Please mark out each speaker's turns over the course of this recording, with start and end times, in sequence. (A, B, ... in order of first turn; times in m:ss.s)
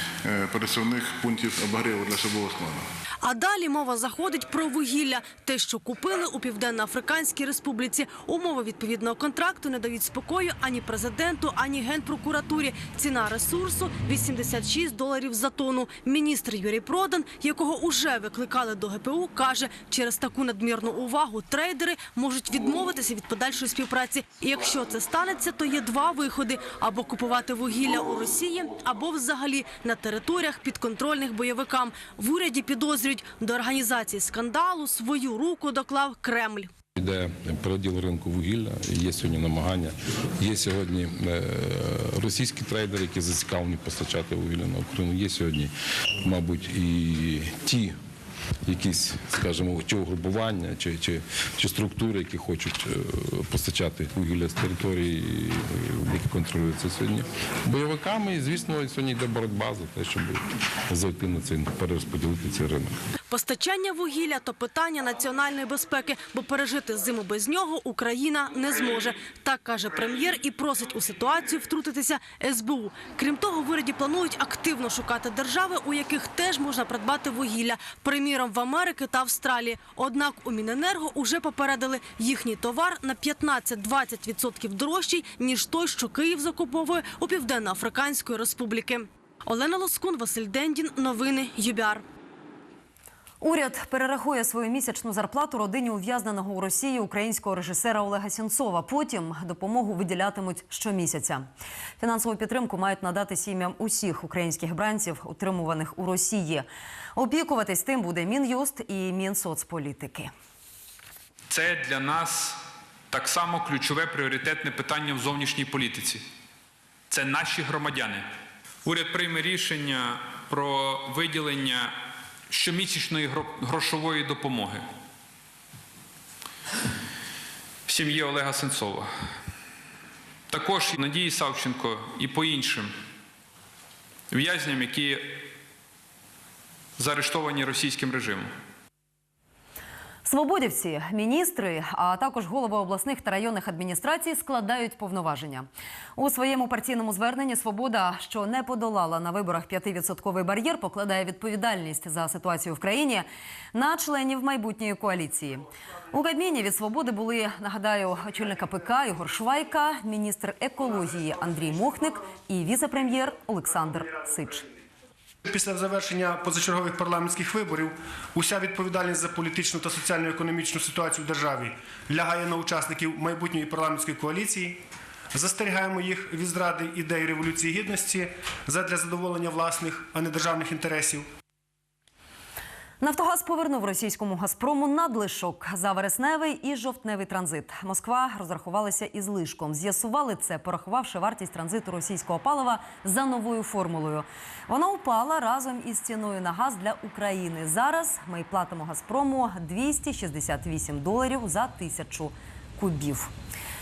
0:00.2-0:02.9 A
0:03.2-0:36.7 B
0:37.0-0:45.7 C
0:46.2-0:47.9 C
0:48.6-1:00.4 C
1:00.9-1:02.9 C
1:03.3-1:32.0 B
1:33.4-1:41.5 D
1:42.0-1:50.3 D
1:51.5-1:56.2 E
1:57.1-1:58.3 E
1:58.8-2:02.0 E
2:02.5-2:04.8 E
2:07.8-2:09.1 E
2:10.5-2:12.9 E
2:14.3-2:15.4 E
2:17.0-2:18.5 E
2:20.2-2:44.7 D
2:45.4-2:54.8 F
2:55.3-3:01.3 F
3:03.0-3:23.3 D